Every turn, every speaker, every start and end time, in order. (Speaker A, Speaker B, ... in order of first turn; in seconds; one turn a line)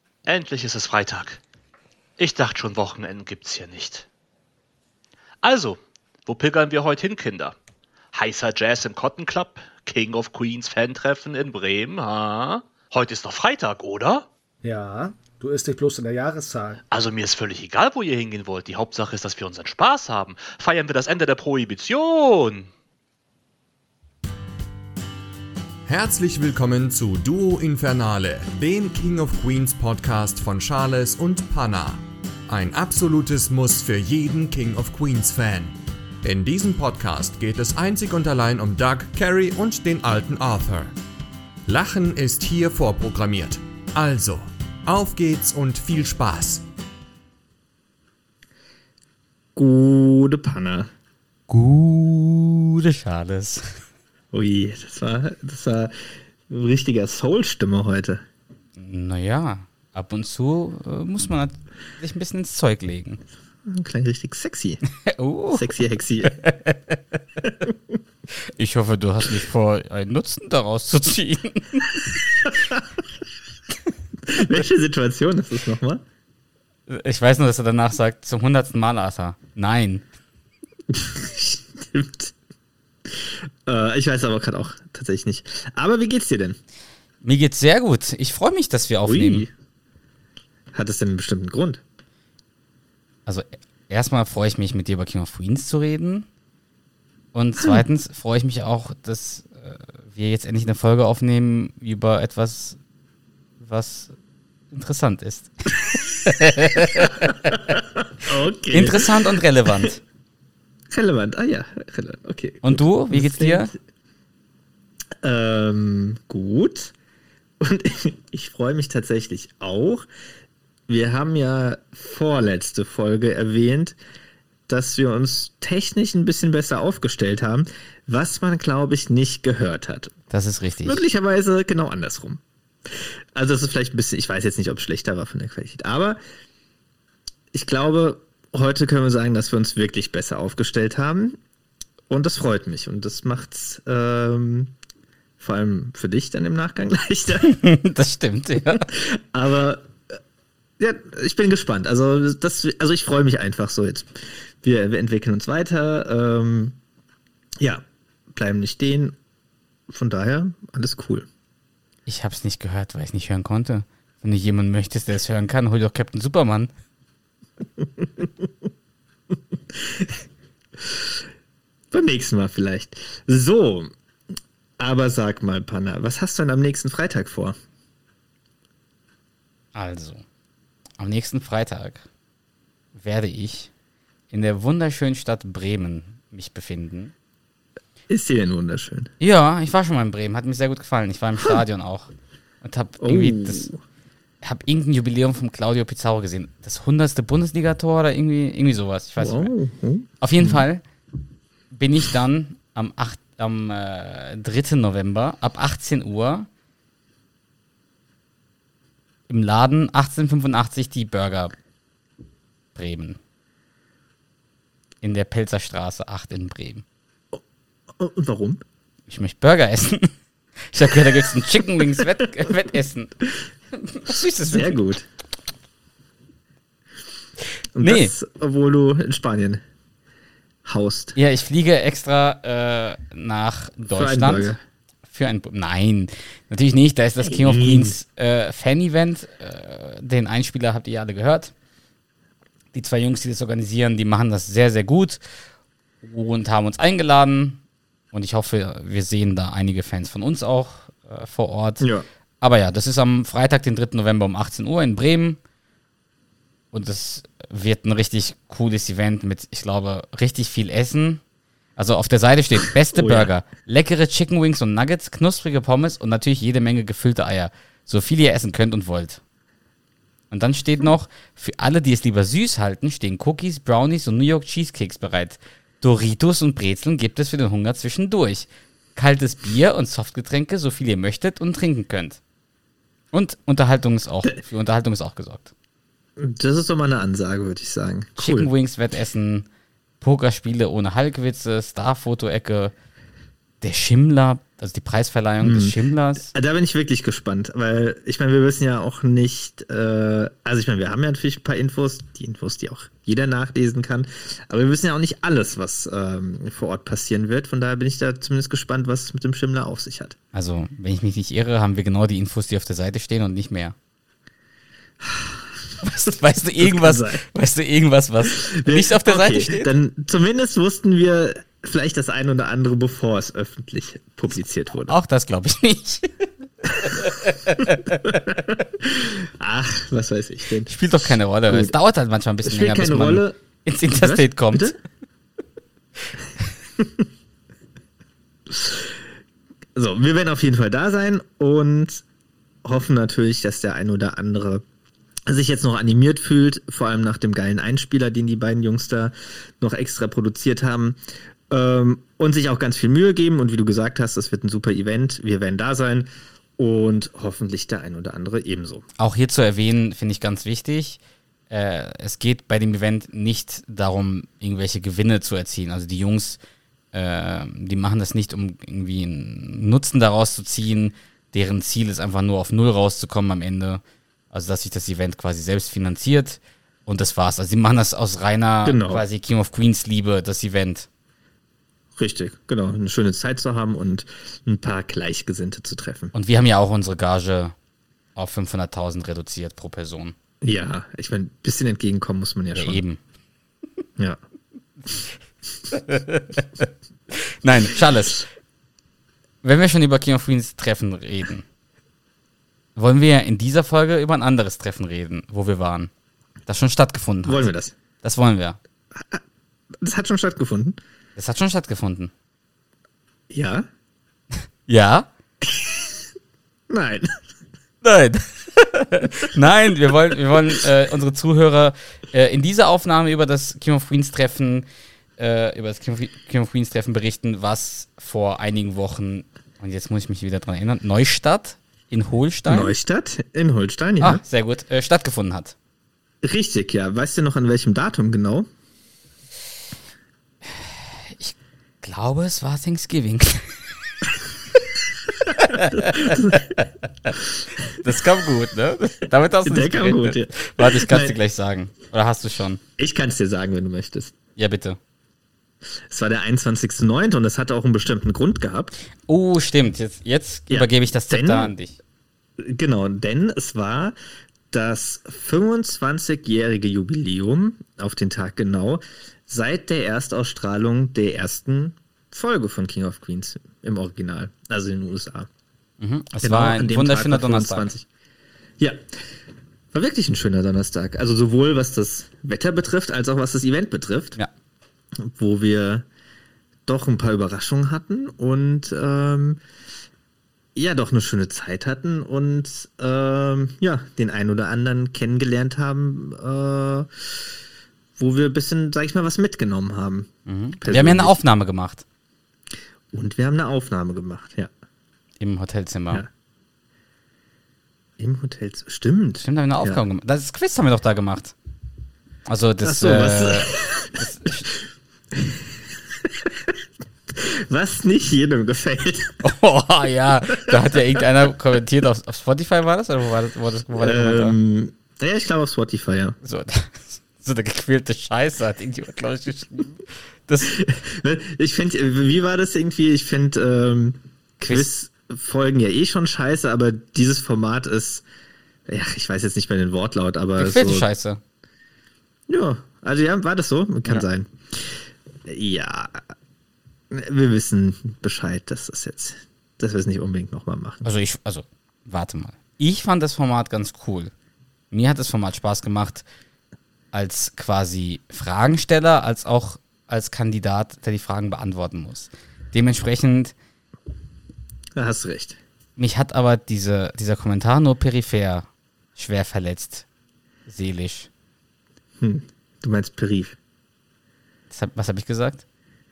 Speaker A: 0.2-1.4
Speaker A: 2.2-4.0
Speaker A: 5.4-7.5
Speaker A: 8.1-14.3
Speaker B: 14.6-16.8
Speaker A: 16.9-22.7
Speaker C: 25.9-40.9
Speaker C: 41.7-46.6
Speaker D: 49.5-50.9
Speaker E: 51.5-53.7
Speaker D: 54.3-58.2
Speaker E: 58.8-63.2
Speaker D: 63.7-64.8
Speaker E: 65.1-65.6
Speaker D: 65.5-66.4
Speaker E: 66.2-67.0
Speaker E: 68.6-71.9
Speaker D: 72.4-72.8
Speaker D: 74.3-76.0
Speaker E: 76.9-80.0
Speaker D: 80.9-82.3
Speaker D: 83.1-86.6
Speaker E: 87.2-89.5
Speaker D: 89.0-89.5
Speaker D: 90.7-91.8
Speaker E: 93.2-96.3
Speaker E: 97.3-102.8
Speaker E: 103.6-104.1
Speaker E: 104.7-107.6
Speaker D: 108.2-109.9
Speaker E: 108.7-110.0
Speaker D: 110.9-113.8
Speaker E: 112.6-113.7
Speaker D: 115.2-116.9
Speaker D: 117.6-120.0
Speaker D: 120.9-124.0
Speaker D: 124.7-130.1
Speaker E: 130.3-131.1
Speaker D: 130.8-136.2
Speaker D: 137.5-141.4
Speaker D: 142.1-144.7
Speaker D: 145.4-147.6
Speaker E: 147.4-148.9
Speaker D: 148.6-149.9
Speaker D: 150.8-156.8
Speaker D: 157.6-159.2
Speaker D: 159.9-161.3
Speaker E: 162.1-166.7
Speaker D: 169.7-170.2
Speaker D: 170.8-171.2
Speaker D: 171.9-173.9
Speaker D: 174.8-177.6
Speaker E: 179.7-180.2
Speaker E: 181.0-182.0
Speaker E: 182.9-183.7
Speaker E: 184.3-187.1
Speaker D: 188.1-189.1
Speaker E: 189.2-192.1
Speaker E: 192.6-193.7
Speaker D: 193.0-193.8
Speaker E: 194.4-199.5
Speaker D: 199.2-200.7
Speaker E: 200.2-200.8
Speaker E: 201.7-206.5
Speaker E: 209.3-211.5
Speaker E: 212.8-213.2
Speaker E: 215.0-216.8
Speaker D: 217.9-218.6
Speaker E: 219.1-220.1
Speaker E: 220.7-223.1
Speaker D: 221.1-222.1
Speaker E: 223.7-224.8
Speaker D: 224.5-225.1
Speaker D: 227.7-229.6
Speaker E: 227.8-228.1
Speaker D: 230.6-231.1
Speaker E: 231.2-234.5
Speaker D: 233.8-234.6
Speaker E: 235.1-241.5
Speaker D: 237.2-238.0
Speaker E: 242.7-245.2
Speaker E: 246.0-247.6
Speaker E: 248.1-251.8
Speaker D: 251.8-252.0
Speaker E: 252.4-255.4
Speaker E: 256.7-261.2
Speaker E: 261.8-269.2
Speaker D: 262.9-263.3
Speaker E: 270.3-282.2
Speaker E: 283.1-285.5
Speaker D: 286.2-288.5
Speaker E: 288.2-289.4
Speaker E: 290.0-292.7
Speaker E: 293.6-296.3
Speaker D: 295.4-310.1
Speaker E: 310.3-313.7
Speaker D: 315.0-315.5
Speaker E: 315.8-319.7
Speaker D: 316.1-317.2
Speaker D: 318.2-325.0
Speaker E: 324.9-326.2
Speaker E: 326.8-328.3
Speaker D: 328.3-330.7
Speaker E: 330.7-334.7
Speaker D: 331.5-331.7
Speaker D: 332.4-333.4
Speaker D: 333.9-334.8
Speaker D: 338.5-338.9
Speaker D: 339.8-342.0
Speaker D: 342.6-344.6
Speaker D: 345.2-351.0
Speaker D: 351.5-358.9
Speaker E: 359.0-366.4
Speaker E: 366.9-373.8
Speaker E: 374.3-380.9
Speaker D: 378.6-379.0
Speaker D: 382.0-386.1
Speaker E: 386.1-387.5
Speaker E: 388.1-390.1
Speaker D: 390.4-392.8
Speaker E: 392.5-393.0
Speaker E: 395.7-398.2
Speaker E: 399.4-401.4
Speaker E: 402.8-405.9
Speaker E: 406.5-407.5
Speaker D: 407.2-407.7
Speaker E: 408.0-408.6
Speaker D: 408.9-409.2
Speaker D: 409.7-410.8
Speaker E: 411.2-412.1
Speaker D: 413.3-413.7
Speaker E: 414.7-415.1
Speaker D: 415.4-416.0
Speaker D: 416.7-417.1
Speaker E: 417.8-424.6
Speaker E: 425.2-432.7
Speaker D: 432.5-434.2
Speaker E: 434.0-435.6
Speaker D: 436.2-438.5
Speaker E: 440.4-443.6
Speaker E: 445.4-447.1
Speaker D: 445.6-446.4
Speaker E: 447.8-452.6
Speaker D: 449.4-451.2
Speaker D: 452.8-454.1
Speaker E: 454.4-454.8
Speaker D: 455.9-458.7
Speaker E: 459.1-461.8
Speaker D: 460.5-461.5
Speaker D: 462.4-463.9
Speaker D: 464.5-475.3
Speaker E: 475.8-477.7
Speaker D: 476.2-477.9
Speaker D: 479.7-484.2
Speaker D: 484.9-485.9
Speaker D: 486.6-489.4
Speaker D: 490.5-497.1
Speaker D: 498.0-500.1
Speaker E: 500.3-501.8
Speaker D: 500.6-501.2
Speaker D: 502.9-504.5
Speaker E: 505.2-506.0
Speaker D: 508.0-509.8
Speaker E: 509.2-511.3
Speaker E: 512.3-514.5
Speaker D: 512.6-514.5
Speaker D: 515.1-516.5
Speaker D: 517.1-519.2
Speaker E: 519.2-524.4
Speaker D: 520.5-521.0
Speaker D: 523.8-526.2
Speaker E: 526.2-530.5
Speaker D: 530.5-538.0
Speaker E: 534.4-534.7
Speaker D: 538.7-540.9
Speaker E: 540.4-541.2
Speaker D: 542.3-546.1
Speaker D: 546.9-550.9
Speaker E: 550.8-554.1
Speaker E: 554.7-556.0
Speaker E: 556.9-563.3
Speaker D: 564.8-565.4
Speaker E: 565.8-569.9
Speaker E: 570.5-571.1
Speaker D: 572.0-573.4
Speaker E: 574.5-575.4